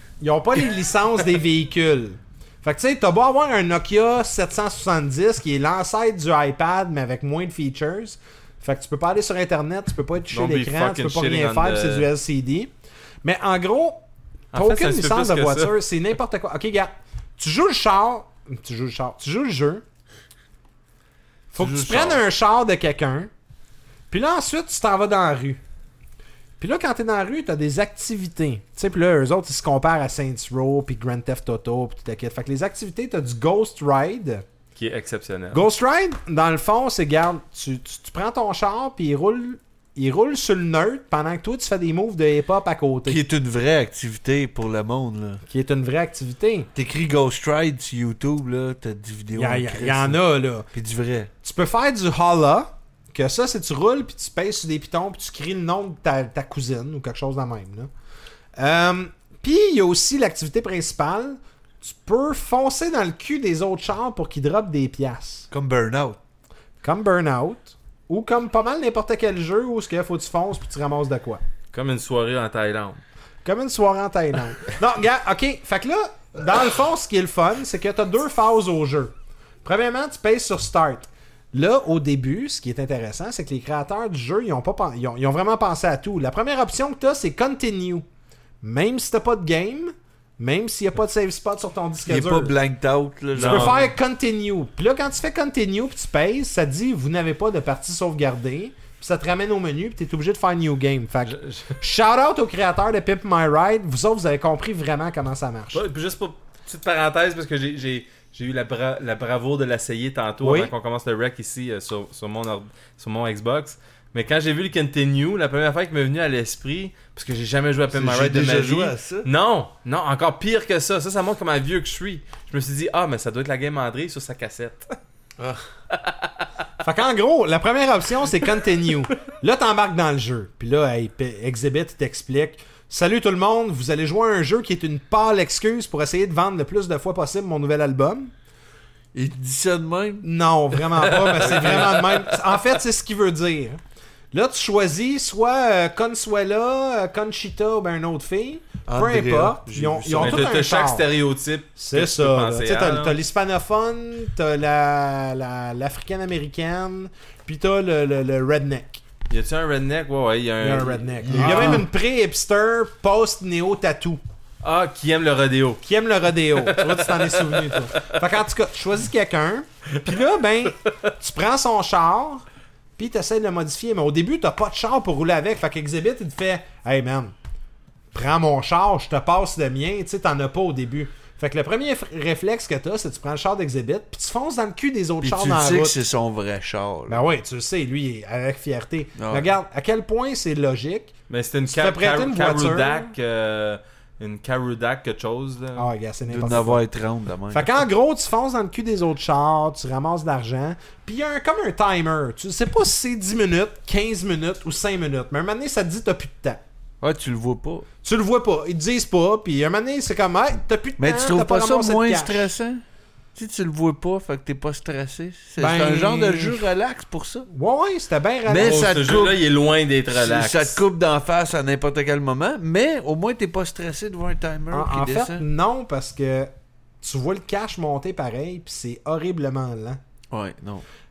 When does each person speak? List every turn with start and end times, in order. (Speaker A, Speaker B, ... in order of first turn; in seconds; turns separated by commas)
Speaker A: 0.2-12.7, Speaker B: 10.3-12.1, Speaker A: 13.2-14.0, Speaker B: 14.5-15.7, Speaker A: 14.5-19.8, Speaker A: 21.5-23.3, Speaker B: 21.5-22.2, Speaker A: 24.1-25.6, Speaker A: 26.6-34.4, Speaker B: 34.8-35.6, Speaker A: 35.5-43.2, Speaker C: 43.0-45.4, Speaker A: 45.5-46.7, Speaker C: 46.7-51.3, Speaker A: 49.4-50.7, Speaker A: 51.4-57.9, Speaker A: 58.5-65.5, Speaker C: 65.5-66.2, Speaker A: 66.8-71.4, Speaker B: 71.7-73.0, Speaker A: 73.4-79.1, Speaker A: 79.6-88.0, Speaker A: 88.6-92.5, Speaker C: 92.0-93.8, Speaker A: 93.3-105.8, Speaker B: 93.3-93.9, Speaker B: 101.2-101.8, Speaker B: 105.7-124.9, Speaker A: 110.4-110.7, Speaker C: 117.9-119.3, Speaker B: 125.9-126.3, Speaker A: 126.8-138.3, Speaker C: 139.1-140.2, Speaker A: 140.2-143.8, Speaker B: 141.1-142.2, Speaker A: 144.3-151.0, Speaker C: 148.9-150.5, Speaker B: 150.2-153.2, Speaker A: 151.8-159.0, Speaker B: 159.3-161.9, Speaker A: 160.6-164.2, Speaker C: 161.3-161.8, Speaker B: 164.6-165.8, Speaker A: 165.8-172.4, Speaker B: 166.5-168.0, Speaker A: 173.0-177.3, Speaker A: 178.1-186.0, Speaker C: 185.2-187.2, Speaker A: 187.1-191.1, Speaker C: 189.2-189.5, Speaker B: 191.3-195.9, Speaker A: 191.7-193.1, Speaker A: 195.8-196.8, Speaker C: 196.3-197.8, Speaker A: 197.5-206.6, Speaker C: 207.0-207.8, Speaker A: 208.0-212.5, Speaker C: 211.0-212.8, Speaker C: 213.3-217.5, Speaker A: 215.6-216.7, Speaker A: 217.5-218.9, Speaker B: 218.4-220.8, Speaker C: 218.5-219.4, Speaker C: 220.1-225.4, Speaker A: 224.7-230.0, Speaker C: 230.3-230.8